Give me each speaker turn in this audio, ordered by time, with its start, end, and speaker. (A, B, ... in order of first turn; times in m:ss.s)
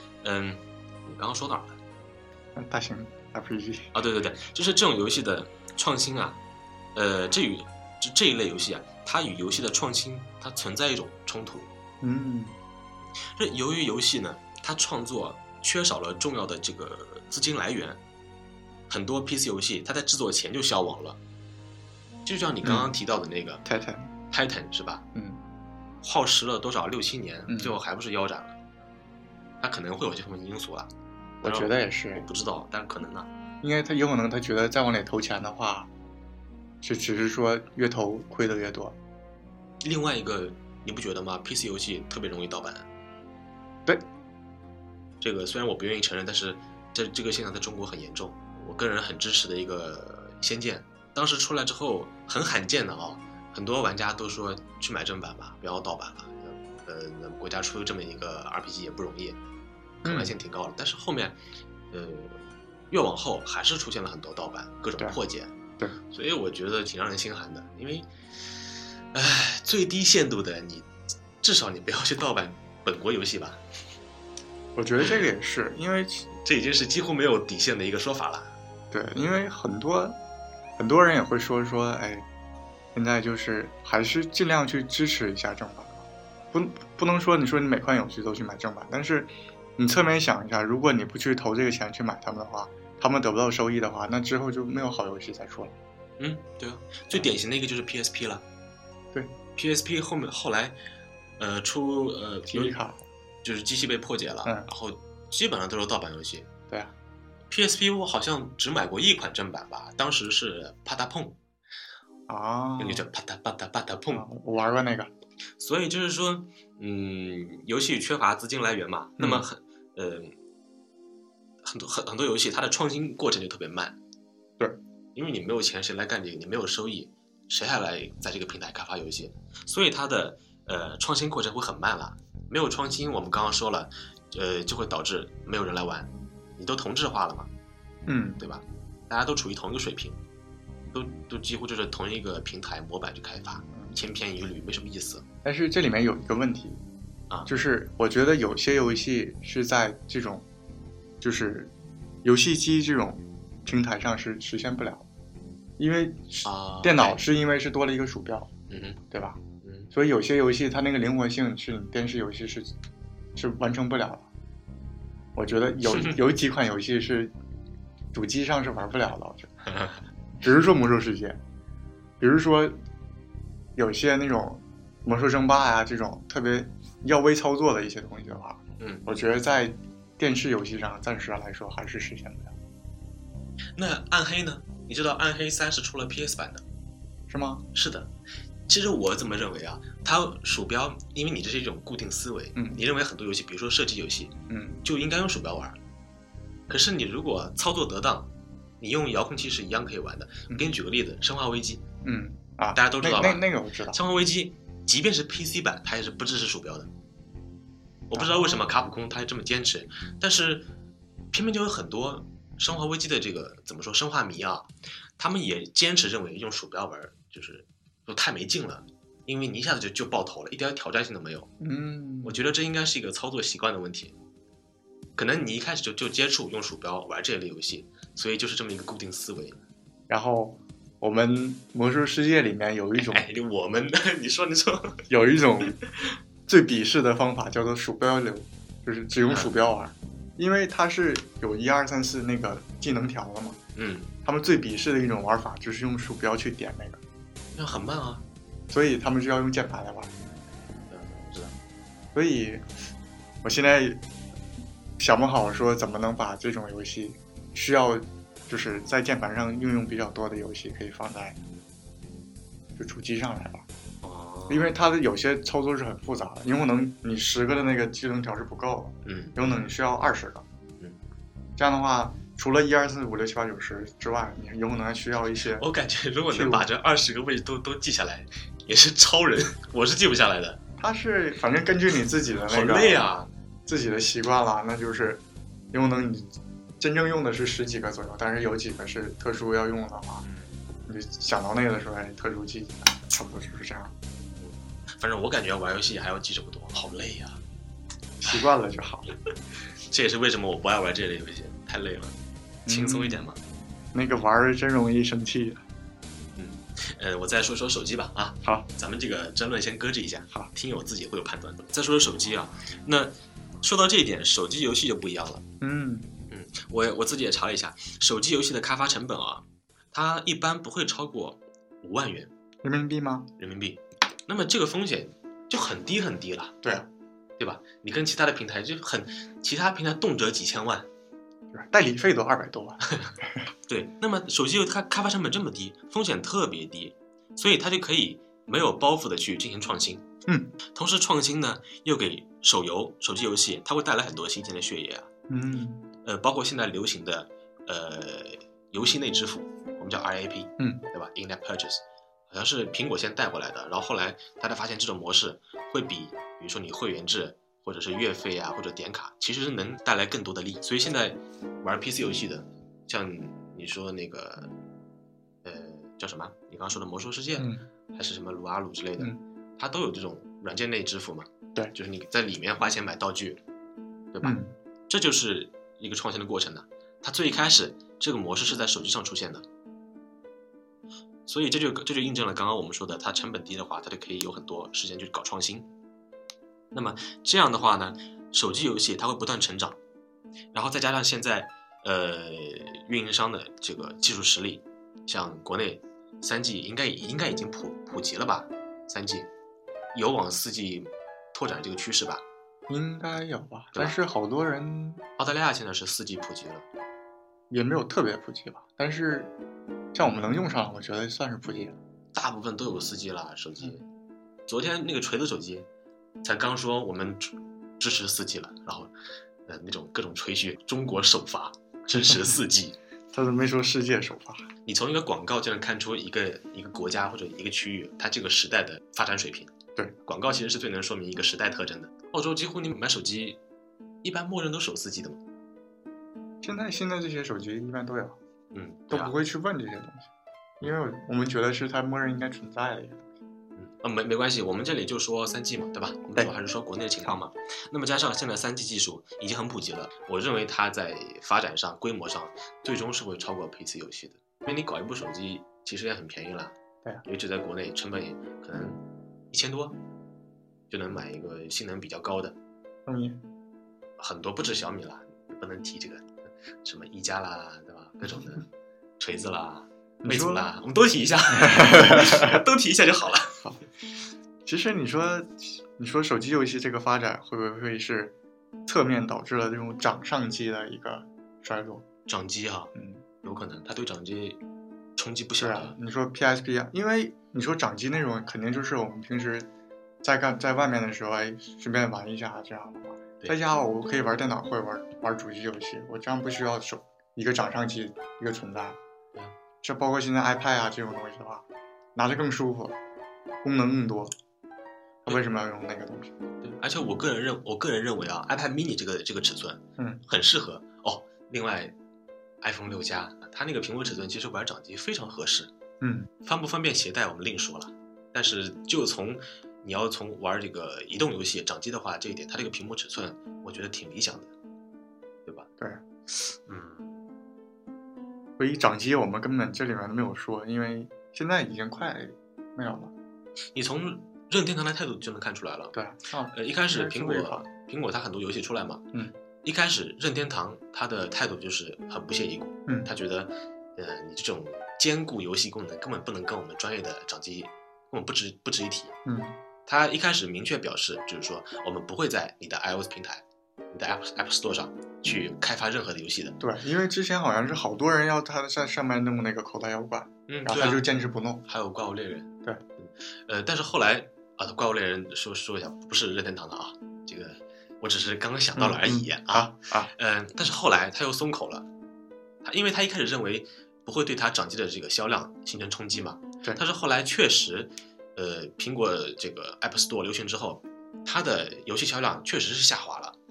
0:00.2-0:01.8 A
0:02.5-0:03.9 B
0:03.9-0:06.4 A
0:06.9-0:11.7 A
0:12.0-0:12.6 B
0:13.4-0:18.0 A
0:18.9-0:21.2 A
0:22.2-0:23.6 A
0:22.6-0:22.9 B
0:23.6-0:24.1 B
0:24.3-0:25.0 A
0:25.1-0:25.4 B
0:26.0-0:28.6 A
0:27.5-0:27.8 B
0:29.6-0:30.9 A
0:31.4-0:32.2 B
0:31.4-0:33.3 A
0:33.6-0:35.9 B
0:36.8-0:39.0 B
0:39.8-0:42.8 A
0:45.2-0:59.4 A
1:00.0-1:00.3 B
1:00.0-1:01.4 A
1:01.9-1:05.5 A
1:06.1-1:08.6 A
1:09.1-1:10.9 A
1:11.4-1:13.6 A
1:14.8-1:16.3 B
1:16.3-1:18.5 A
1:18.9-1:20.2 B
1:20.8-1:22.2 B
1:22.9-1:35.7 B
1:36.2-1:38.4 A
1:39.5-1:40.8 A
1:41.4-1:42.8 A
1:42.5-1:43.0 B
1:43.4-1:46.5 A
1:47.5-1:51.4 A
1:52.3-1:53.0 B
1:52.8-1:54.2 A
1:54.1-1:55.1 B
1:55.6-2:00.3 A
1:59.2-1:59.4 B
2:01.6-2:04.0 A
2:05.1-2:17.5 A
2:18.0-2:18.4 B
2:18.4-2:20.2 A
2:20.9-2:25.2 A
2:25.4-2:26.8 B
2:27.4-2:30.4 B
2:31.2-2:31.7 B
2:32.2-2:35.0 B
2:35.8-2:39.4 B
2:36.4-2:37.2 A
2:38.7-2:39.0 A
2:39.6-2:39.9 A
2:39.9-2:42.7 B
2:43.4-2:44.3 B
2:45.3-2:47.3 B
2:45.9-2:46.2 A
2:48.1-2:49.5 B
2:49.6-2:50.0 A
2:50.4-2:51.4 B
2:52.2-2:52.8 B
2:53.7-3:02.5 B
2:58.8-2:59.0 A
3:03.8-3:06.6 A
3:07.3-3:07.6 B
3:07.7-3:08.1 A
3:08.7-3:15.8 A
3:12.6-3:12.8 B
3:14.5-3:14.8 B
3:16.7-3:18.3 A
3:18.8-3:21.8 A
3:22.0-3:24.0 B
3:22.7-3:26.9 A
3:28.1-3:30.7 A
3:28.1-3:28.6 B
3:31.3-3:41.5 A
3:41.6-3:42.4 B
3:42.2-3:44.1 A
3:45.2-3:49.6 A
3:50.1-3:53.2 B
3:53.0-3:55.0 A
3:55.1-3:55.8 B
3:55.8-3:56.1 A
3:56.5-4:03.6 B
3:59.2-3:59.5 A
4:03.8-4:04.1 A
4:04.2-4:07.0 B
4:07.6-4:08.2 A
4:08.7-4:10.1 B
4:10.9-4:11.6 A
4:12.1-4:12.7 B
4:13.4-4:14.0 B
4:15.0-4:21.4 B
4:22.8-4:23.6 B
4:24.0-4:24.7 A
4:24.5-4:30.4 B
4:29.0-4:29.4 A
4:31.6-4:35.6 B
4:35.6-4:40.6 A
4:36.3-4:36.7 B
4:40.8-4:43.1 B
4:42.4-4:43.3 A
4:43.6-4:50.2 B
4:50.2-4:50.6 A
4:50.9-4:53.9 B
4:54.4-4:57.4 A
4:58.2-4:59.1 B
4:59.9-5:02.2 A
5:02.6-5:03.3 B
5:02.7-5:03.4 A
5:03.9-5:05.6 B
5:06.4-5:15.4 A
5:15.6-5:16.1 B
5:16.3-5:22.3 A
5:22.6-5:23.3 B
5:23.4-5:26.6 A
5:27.4-5:30.9 A
5:31.5-5:33.5 B
5:33.7-5:40.0 A
5:40.7-5:45.1 A
5:45.3-5:45.8 B
5:46.0-6:04.5 A
6:05.4-6:13.4 A
6:07.4-6:07.6 B
6:14.1-6:14.4 A
6:14.2-6:14.5 B
6:14.9-6:19.4 A
6:21.2-6:25.7 A
6:26.7-6:29.8 A
6:30.5-6:39.3 A
6:39.9-6:42.2 A
6:42.7-6:45.0 B
6:45.2-6:46.6 A
6:47.5-6:49.3 B
6:49.9-6:51.8 B
6:52.1-6:53.8 A
6:54.5-6:55.7 A
6:56.2-6:58.9 A
6:59.4-7:02.8 A
7:01.9-7:02.4 B
7:03.1-7:04.5 B
7:04.6-7:09.5 A
7:10.0-7:13.4 A
7:14.0-7:15.2 A
7:16.4-7:18.2 B
7:18.5-7:19.1 A
7:18.9-7:20.1 B
7:20.6-7:23.0 B
7:23.6-7:38.8 A
7:39.3-7:39.8 A
7:40.7-7:42.4 A
7:42.8-7:43.2 B
7:44.0-7:48.5 A
7:49.0-7:53.4 A
7:50.0-7:50.5 B
7:51.4-7:52.4 B
7:54.4-7:58.1 B
7:58.6-8:01.8 B
8:02.1-8:04.4 A
8:02.7-8:03.0 B
8:05.0-8:05.8 A
8:05.4-8:09.5 B
8:10.0-8:18.8 B
8:19.6-8:21.4 B
8:21.9-8:22.8 B
8:23.4-8:24.1 B
8:25.0-8:26.1 B
8:26.4-8:31.7 A
8:32.4-8:35.5 A
8:35.8-8:36.1 B
8:36.2-8:44.3 A
8:46.3-8:46.9 A
8:48.4-8:52.9 B
8:53.5-8:55.7 A
8:55.7-8:57.4 B
8:56.3-8:58.8 A
8:59.4-9:08.9 A
9:09.0-9:09.4 B
9:09.6-9:16.4 A
9:16.4-9:21.4 B
9:20.3-9:20.8 A
9:21.4-9:31.6 A
9:28.6-9:29.9 B
9:32.4-9:43.2 A